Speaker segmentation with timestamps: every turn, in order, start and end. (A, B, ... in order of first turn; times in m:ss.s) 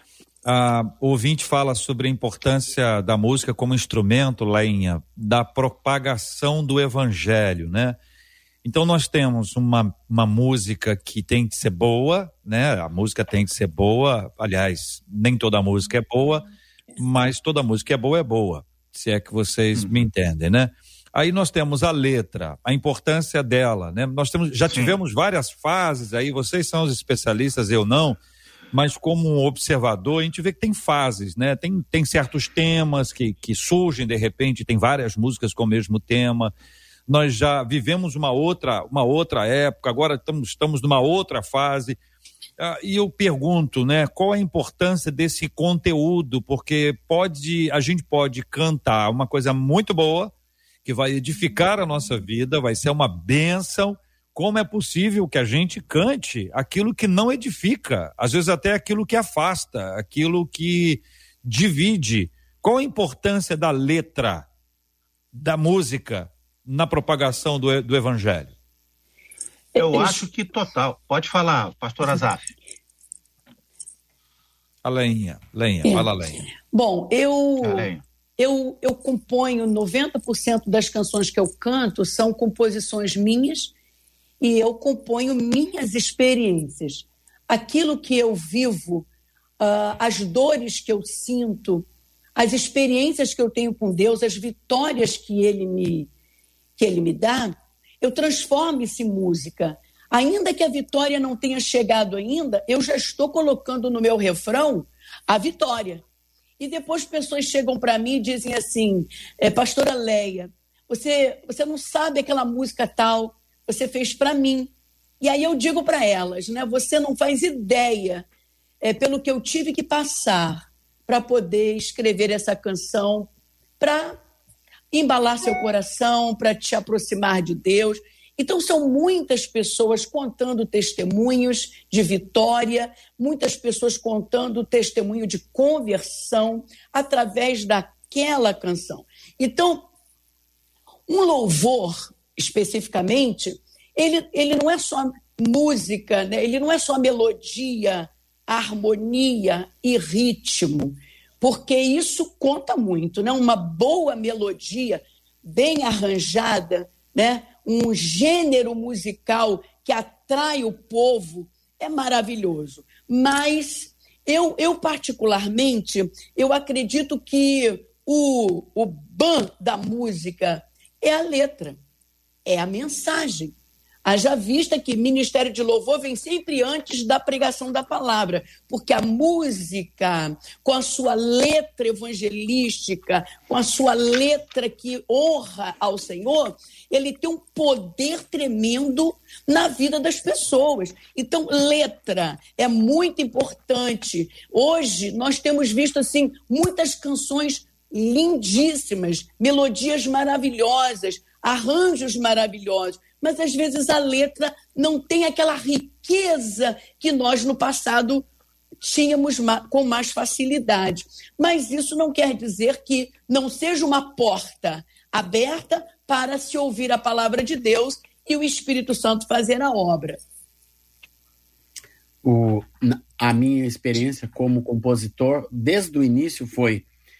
0:00.4-0:08.0 A
0:08.6-0:16.4 A
0:17.0-0:28.2 A
0:24.7-0:25.0 B
0:28.7-0:36.5 A
0:37.1-0:42.0 A
0:42.6-0:50.3 A
0:50.8-1:04.5 A
1:05.3-1:08.5 A
1:09.7-1:10.2 C
1:09.8-1:12.5 B
1:14.8-1:16.4 A
1:15.8-1:23.7 C
1:17.6-1:18.0 B
1:24.4-1:29.1 C
1:29.6-1:36.1 C
1:36.8-1:46.0 C
1:46.6-1:58.2 C
1:58.8-2:04.2 C
2:04.9-2:19.9 C
2:21.1-2:51.8 C
2:52.4-3:28.2 C
3:28.8-3:40.2 C
3:42.2-3:46.8 D